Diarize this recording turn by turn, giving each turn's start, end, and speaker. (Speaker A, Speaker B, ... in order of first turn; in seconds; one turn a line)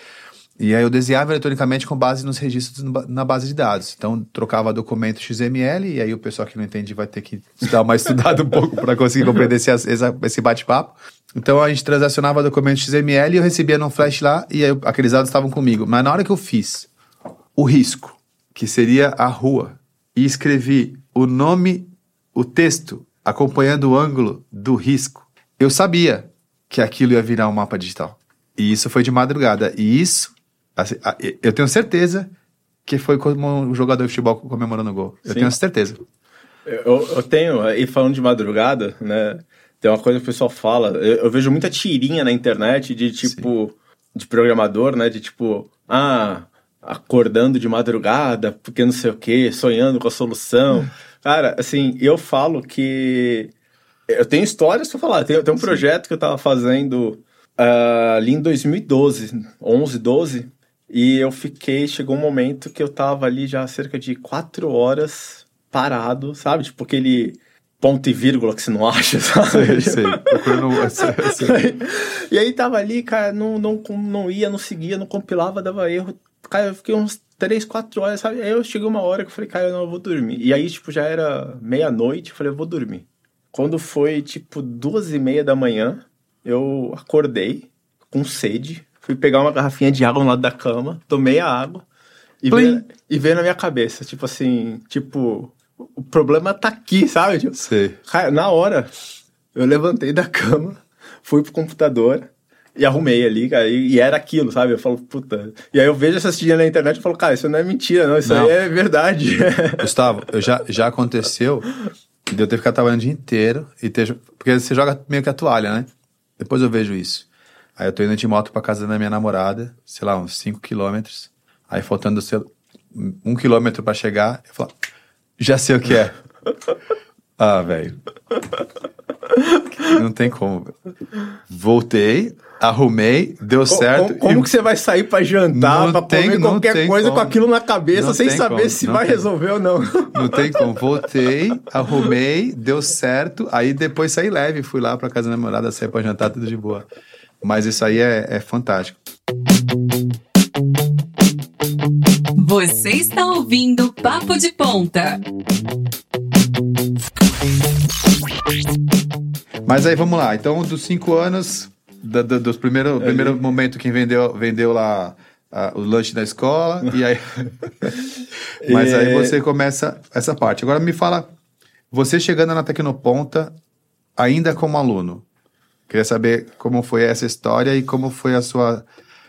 Speaker A: 0.6-16.9
Speaker A: 17.5-32.3
Speaker A: 32.8-36.0
Speaker B: 35.2-35.5
Speaker B: 36.6-53.5
Speaker B: 54.1-91.8
Speaker A: 69.5-71.6
Speaker B: 92.4-98.9
Speaker A: 92.5-92.8
Speaker A: 97.5-98.0
Speaker B: 99.5-109.9
Speaker A: 108.2-108.5
Speaker A: 109.8-111.7
Speaker A: 112.3-124.7
Speaker A: 125.4-126.2
Speaker A: 127.4-128.0
Speaker B: 129.3-129.8
Speaker A: 129.8-130.7
Speaker A: 131.5-134.5
Speaker B: 133.7-140.9
Speaker A: 135.5-137.4
Speaker A: 137.9-139.2
Speaker A: 140.1-146.8
Speaker A: 147.4-149.0
Speaker C: 152.3-155.2
Speaker A: 159.6-167.7
Speaker B: 163.0-163.4
Speaker B: 168.6-169.4
Speaker A: 168.7-171.3
Speaker A: 171.9-173.5
Speaker A: 174.2-175.2
Speaker A: 175.9-178.8